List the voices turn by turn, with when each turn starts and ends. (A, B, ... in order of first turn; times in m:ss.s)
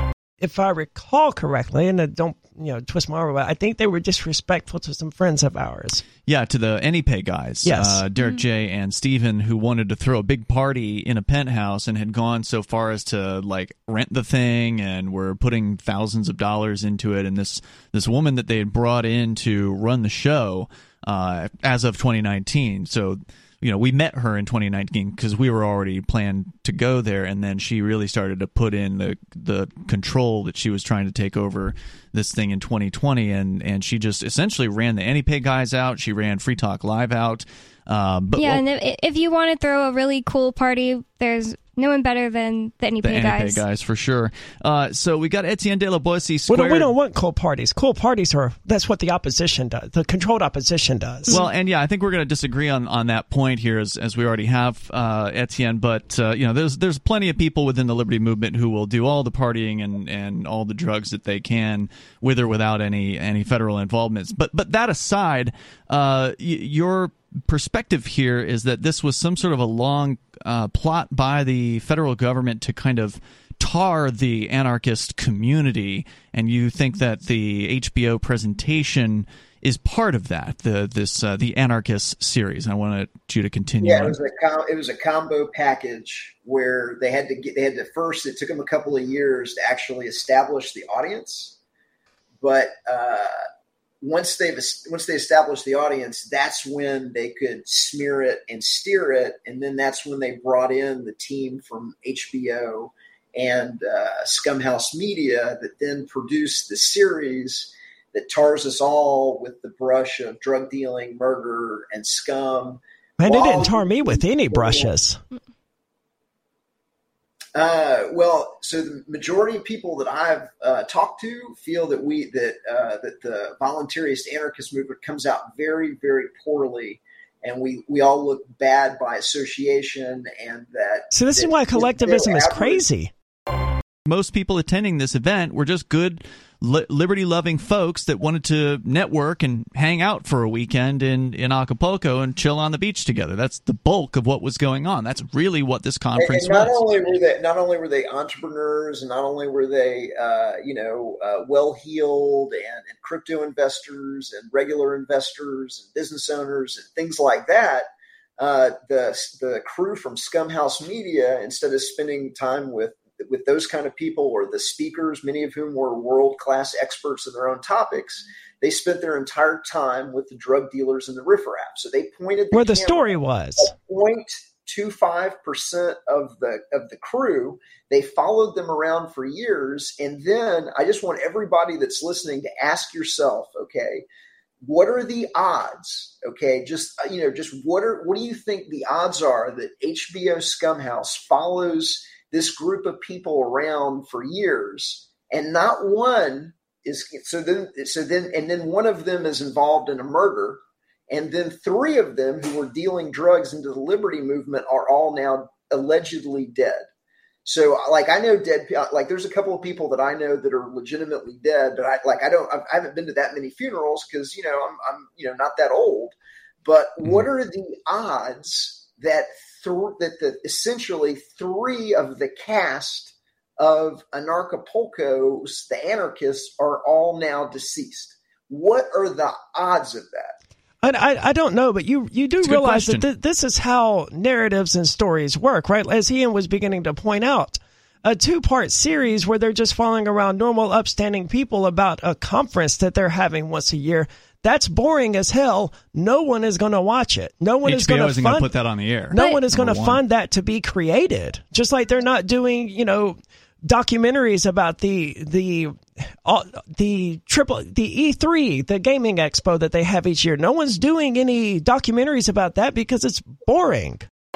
0:00.4-0:06.0 A
0:06.2-0:38.6 B
0:07.6-0:08.0 A
0:38.4-0:43.6 C
0:43.0-0:46.9 B
0:46.5-0:51.4 A
0:51.3-1:24.2 B
1:23.8-1:31.6 D
1:32.4-1:33.4 D
1:34.0-1:54.9 D
1:53.2-1:55.2 A
1:57.5-2:12.8 D
2:11.1-2:13.1 A
2:14.0-2:26.9 B
2:26.2-3:04.0 D
2:52.5-2:53.7 A
3:04.6-3:26.8 D
3:27.4-3:50.3 D
3:50.8-4:08.5 A
3:52.4-3:53.1 B
4:07.6-4:10.0 B
4:09.1-4:24.1 A